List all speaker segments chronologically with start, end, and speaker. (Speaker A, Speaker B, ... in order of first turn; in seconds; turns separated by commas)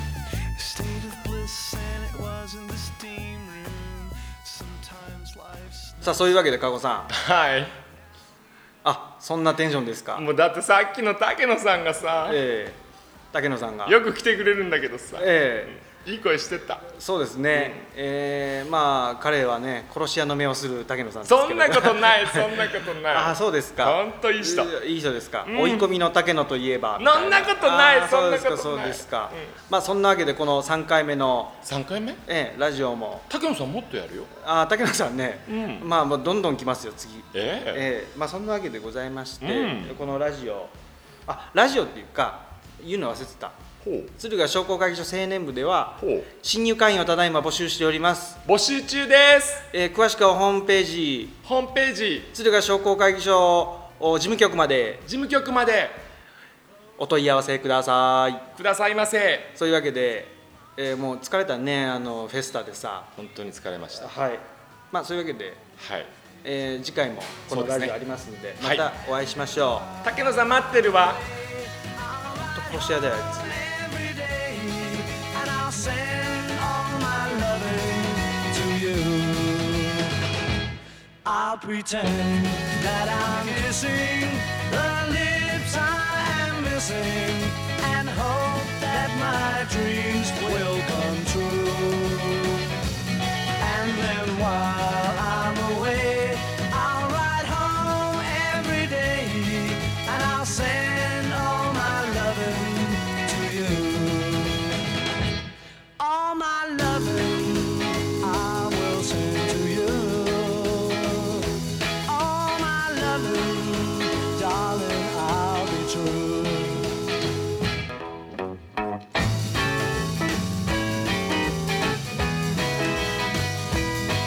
Speaker A: 0.5-6.2, Speaker B: 6.0-7.1, Speaker C: 7.1-7.7, Speaker B: 8.8-10.3, Speaker C: 10.1-12.4, Speaker B: 12.2-12.8, Speaker B: 13.3-14.0, Speaker C: 13.8-16.8, Speaker B: 15.2-15.8, Speaker B: 16.9-31.6, Speaker C: 21.2-24.7, Speaker C: 25.4-25.9, Speaker C: 27.0-29.5, Speaker C: 31.6-32.2, Speaker B: 32.2-33.2, Speaker C: 33.3-34.3, Speaker B: 34.3-48.4, Speaker C: 35.5-35.9, Speaker C: 37.3-37.8, Speaker C: 39.4-40.0, Speaker C: 43.8-44.1, Speaker C: 46.0-46.3, Speaker C: 48.5-49.6, Speaker B: 49.7-51.4, Speaker C: 51.4-52.3, Speaker B: 52.3-55.0, Speaker C: 55.0-56.0, Speaker B: 57.0-58.5, Speaker C: 58.5-59.5, Speaker B: 59.5-63.1, Speaker C: 63.2-64.1, Speaker B: 64.0-65.7, Speaker C: 65.8-66.1, Speaker B: 66.4-69.9, Speaker C: 67.5-68.0, Speaker C: 68.6-68.9, Speaker C: 70.0-71.2, Speaker A: 70.2-80.2, Speaker B: 72.5-73.6, Speaker A: 81.2-92.7, Speaker A: 93.6-104.8, Speaker A: 106.0-116.9